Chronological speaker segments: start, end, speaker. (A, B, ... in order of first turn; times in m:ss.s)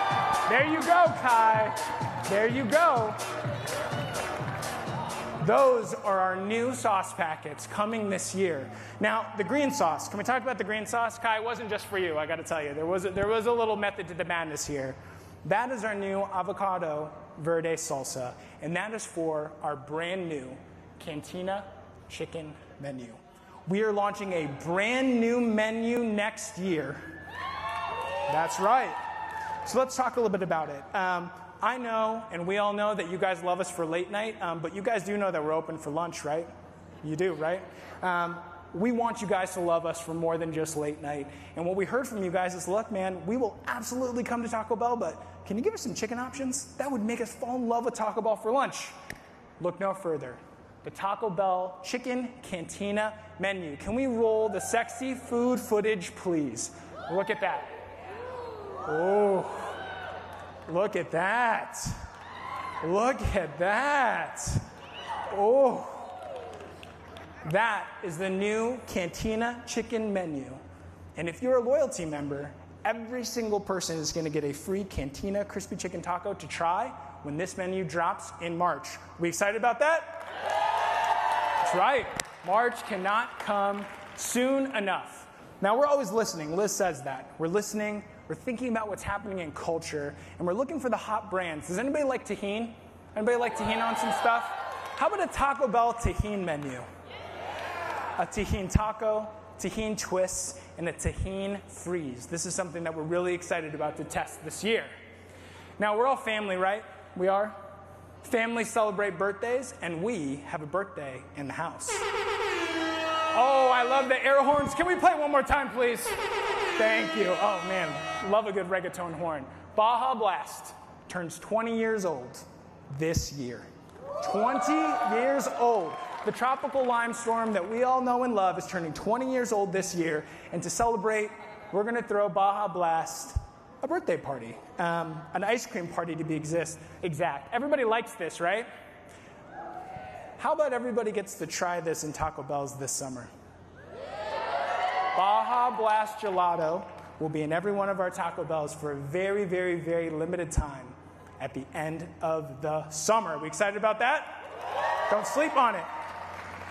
0:00.5-0:03.2 A
0:05.4-0:27.0 A
0:28.3-0:29.0 A
0:29.7-0:36.5 A
0:37.0-0:49.0 A
0:49.6-0:57.8 A
0:58.8-0:59.8 A
1:00.7-1:02.0 A
1:02.8-1:04.6 A
1:05.3-1:06.1 A
1:07.4-1:10.6 A
1:11.2-1:20.2 A
1:21.6-1:36.9 A
1:38.2-1:44.9 A
1:45.8-1:47.6 A
1:48.2-1:52.0 A
1:53.3-1:56.2 A
1:56.8-2:03.7 A
2:04.2-2:18.7 A
2:20.4-2:23.3 A
2:25.2-2:34.4 A
2:35.1-2:35.9 A